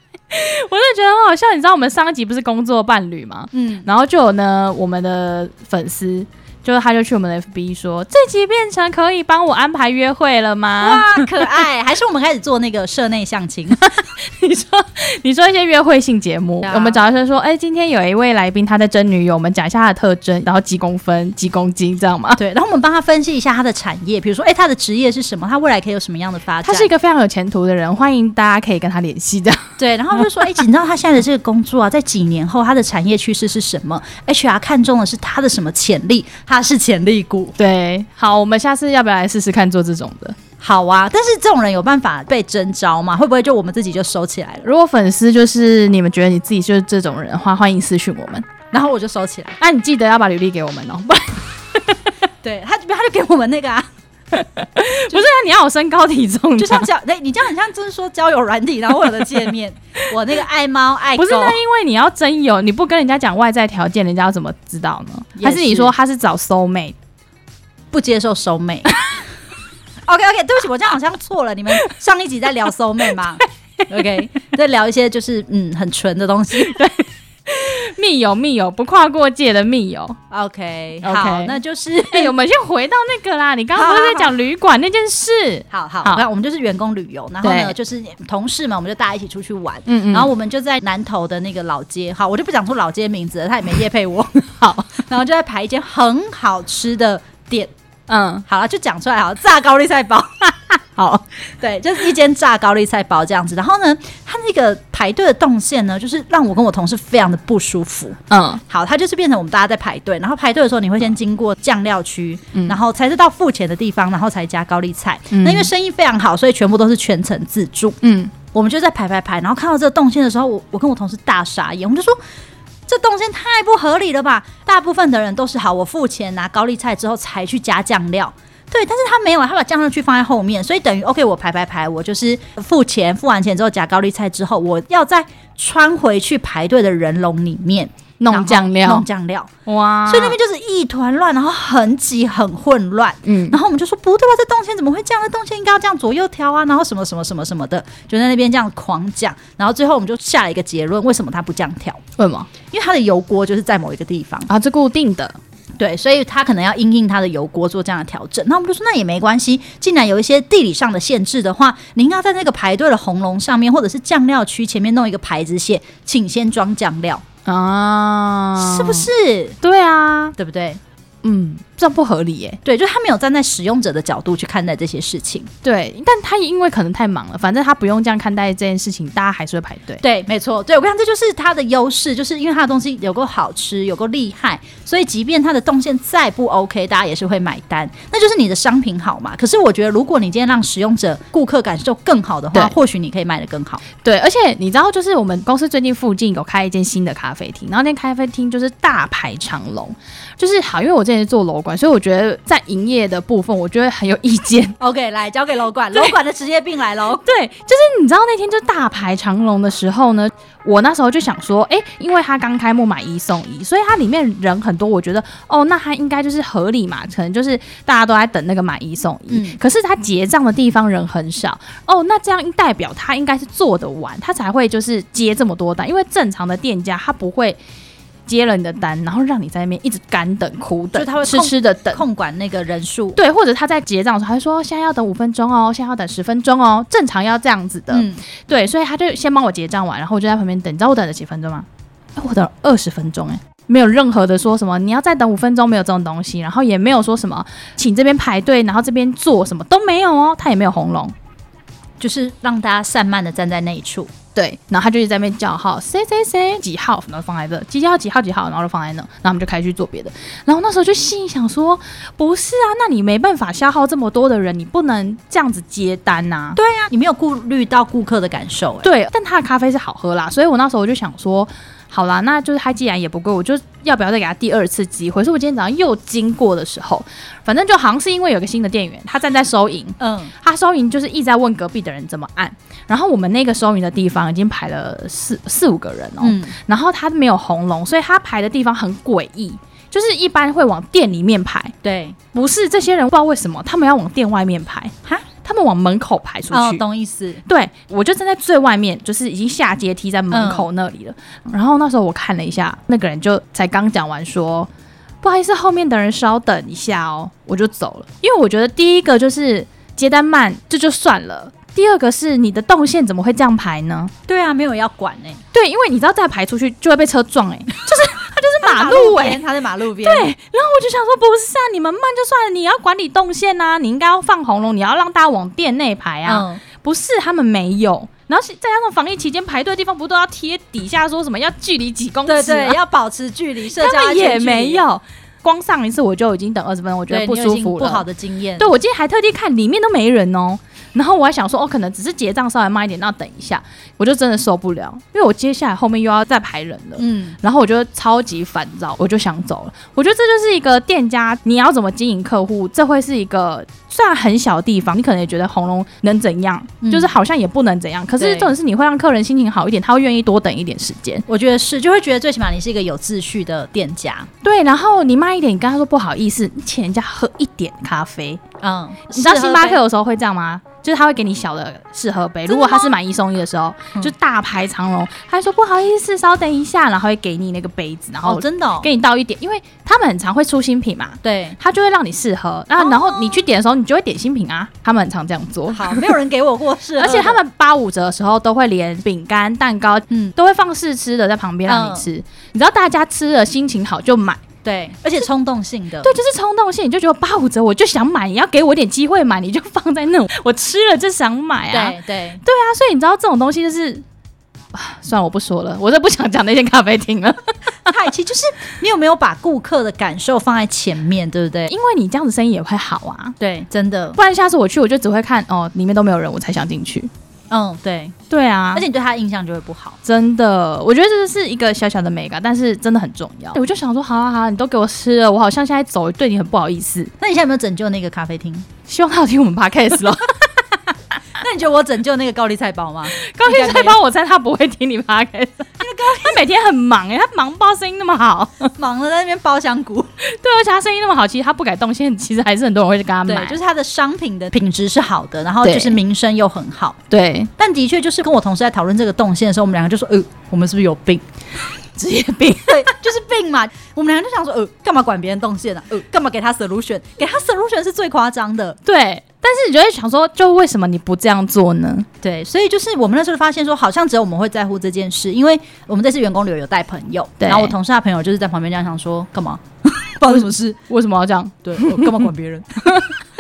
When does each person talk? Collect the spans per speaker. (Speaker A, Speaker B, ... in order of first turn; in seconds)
Speaker A: 0.3-11.6, 13.8-22.4, 26.6-30.5, 37.6-40.4, 44.6-48.5, 49.6-52.1, 54.3-56.9, 61.2-67.0, 76.6-80.2, 81.0-81.6, 82.1-86.2, 87.4-87.8, 89.9-90.3, 94.5-95.0, 98.1-98.5, 101.0-101.2, 108.3-108.6, 115.3-115.7, 118.0-118.3, 138.2-139.1, 139.7-140.4, 143.2-143.6, 152.2-152.5, 154.5-155.4, 167.5-169.1, 169.6-170.3, 171.2-172.6, 175.6-180.0, 194.0-204.8, 207.2-227.6, 228.3-232.0, 233.2-251.1, 254.3-266.6, 268.8-291.7, 292.3-296.8, 297.5-304.7, 305.2-314.1, 315.5-319.4, 320.0-332.8, 333.8-338.0, 338.6-361.2, 364.4-368.4, 369.1-386.1, 387.0-394.4, 396.0-404.0, 404.7-407.9, 411.7-413.4, 414.2-417.1, 418.3-418.9, 420.0-427.1, 428.9-430.5, 433.1-438.7, 440.2-443.6, 445.6-446.0, 447.1-447.5, 451.9-452.9, 458.9-462.1, 467.4-467.8, 470.3-472.3, 472.8-473.1
Speaker B: 3.5-3.9, 10.8-13.9, 16.6-17.0, 22.4-26.9, 29.8-37.5, 40.6-44.7, 48.7-49.6, 52.4-53.9, 56.6-61.6, 65.4-65.9, 67.9-69.0, 70.1-76.7, 80.3-82.3, 83.7-84.3, 85.7-97.7, 98.5-100.5, 101.4-118.0, 118.5-122.2, 122.9-139.5, 140.1-152.0, 152.7-154.5, 155.8-167.2, 168.6-169.6, 170.4-170.8, 172.6-175.5, 180.0-193.8, 204.8-207.3, 219.3-219.6, 230.9-233.2, 237.9-238.2, 252.0-254.1, 266.6-268.9, 280.0-280.3, 286.2-286.6, 291.8-292.2, 296.5-297.4, 300.3-300.7, 314.3-315.4, 318.6-320.3, 326.3-326.6, 332.3-334.8, 337.1-338.7, 347.0-347.4, 356.8-357.1, 358.2-358.5, 361.3-364.3, 368.6-369.8, 372.5-372.9, 378.2-378.9, 381.2-381.6, 382.8-383.4, 385.7-387.4, 391.7-392.1, 394.6-396.1, 401.7-402.4, 407.9-411.7, 413.4-414.2, 417.5-418.1, 418.7-420.0, 427.2-428.7, 431.4-434.0, 435.8-436.4, 438.8-440.1, 443.3-447.0, 447.6-451.2, 452.7-458.8, 462.2-470.8, 471.6-473.0